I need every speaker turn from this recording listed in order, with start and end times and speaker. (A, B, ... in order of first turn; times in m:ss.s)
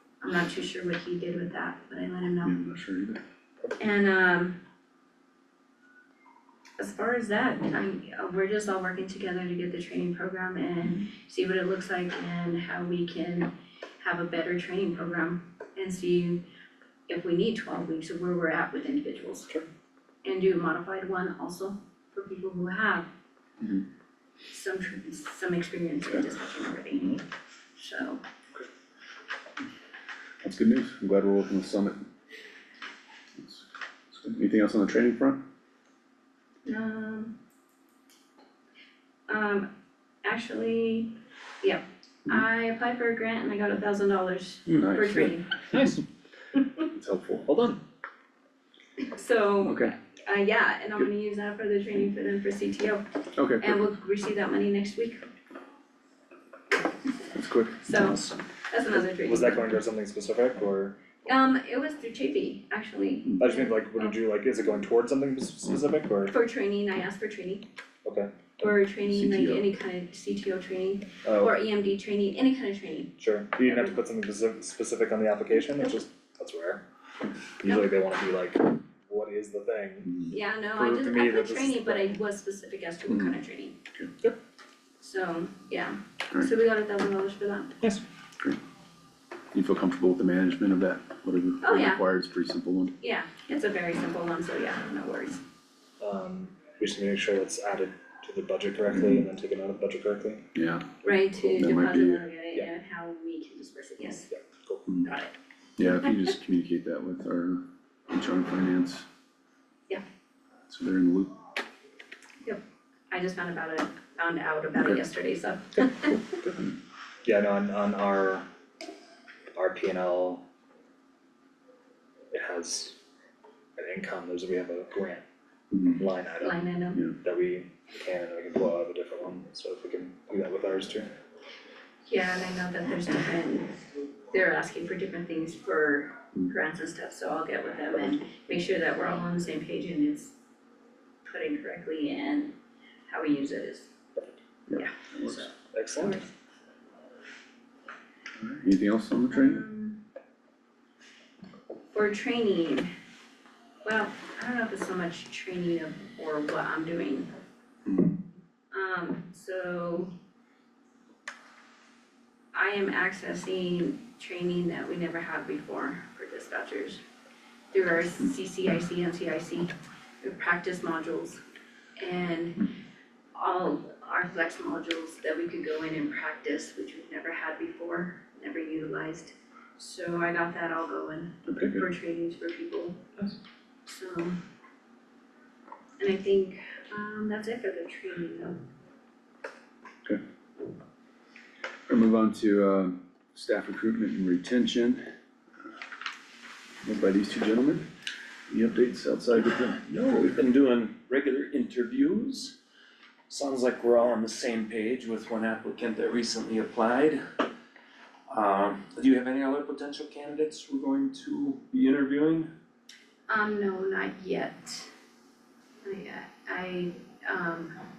0:00.2-0:02.6 A
0:02.4-0:03.2 B
0:03.8-0:04.6 A
0:06.8-0:16.4 A
0:17.1-0:19.6 A
0:20.2-0:23.1 A
0:23.6-0:23.8 B
0:24.5-0:27.2 A
0:27.7-0:28.2 A
0:30.4-0:32.0 B
0:33.4-0:35.4 B
0:36.6-0:37.3 A
0:39.3-0:39.7 A
0:40.2-0:45.6 A
0:44.7-0:45.8 B
0:45.7-0:46.0 C
0:46.9-0:47.6 B
0:47.5-0:47.8 C
0:49.0-0:53.0 A
0:49.6-0:49.9 B
0:53.4-0:53.9 B
0:53.6-0:55.3 A
0:57.3-0:58.3 B
0:57.8-0:59.7 A
0:58.9-1:01.0 C
1:01.3-1:04.1 A
1:03.4-1:06.4 C
1:06.3-1:07.7 A
1:08.0-1:08.3 C
1:08.6-1:13.1 A
1:09.1-1:09.6 B
1:11.2-1:11.5 C
1:13.2-1:16.8 C
1:17.6-1:22.2 C
1:17.6-1:17.9 A
1:20.0-1:20.3 B
1:20.3-1:23.8 A
1:23.1-1:23.4 B
1:25.0-1:27.8 A
1:29.5-1:32.9 B
1:31.6-1:32.0 A
1:33.0-1:35.4 A
1:36.0-1:40.4 C
1:40.5-1:42.2 B
1:41.0-1:44.3 A
1:44.3-1:44.9 C
1:45.0-1:45.3 A
1:45.8-1:49.0 B
1:50.7-1:51.4 B
1:52.4-1:56.3 A
1:57.2-1:58.5 C
1:59.5-2:00.4 C
2:02.3-2:03.0 C
2:03.8-2:05.2 C
2:05.7-2:06.0 B
2:06.0-2:06.6 C
2:06.4-2:07.0 A
2:07.2-2:11.1 C
2:12.0-2:20.3 A
2:21.2-2:22.5 A
2:23.1-2:23.9 A
2:24.7-2:25.4 B
2:24.7-2:26.3 A
2:25.7-2:26.2 C
2:28.4-2:29.6 B
2:29.3-2:30.0 A
2:31.9-2:32.9 A
2:33.8-2:37.3 A
2:37.8-2:38.2 B
2:38.7-2:40.1 A
2:42.5-2:47.0 A
2:47.7-2:51.4 A
2:52.0-2:52.7 A
2:53.3-3:03.0 A
3:01.4-3:01.8 B
3:03.8-3:04.4 A
3:06.0-3:08.6 A
3:11.9-3:15.0 B
3:16.8-3:17.8 B
3:18.5-3:19.8 B
3:19.8-3:22.6 D
3:23.3-3:27.2 D
3:28.3-3:32.5 D
3:33.3-3:34.9 A
3:35.8-3:37.8 A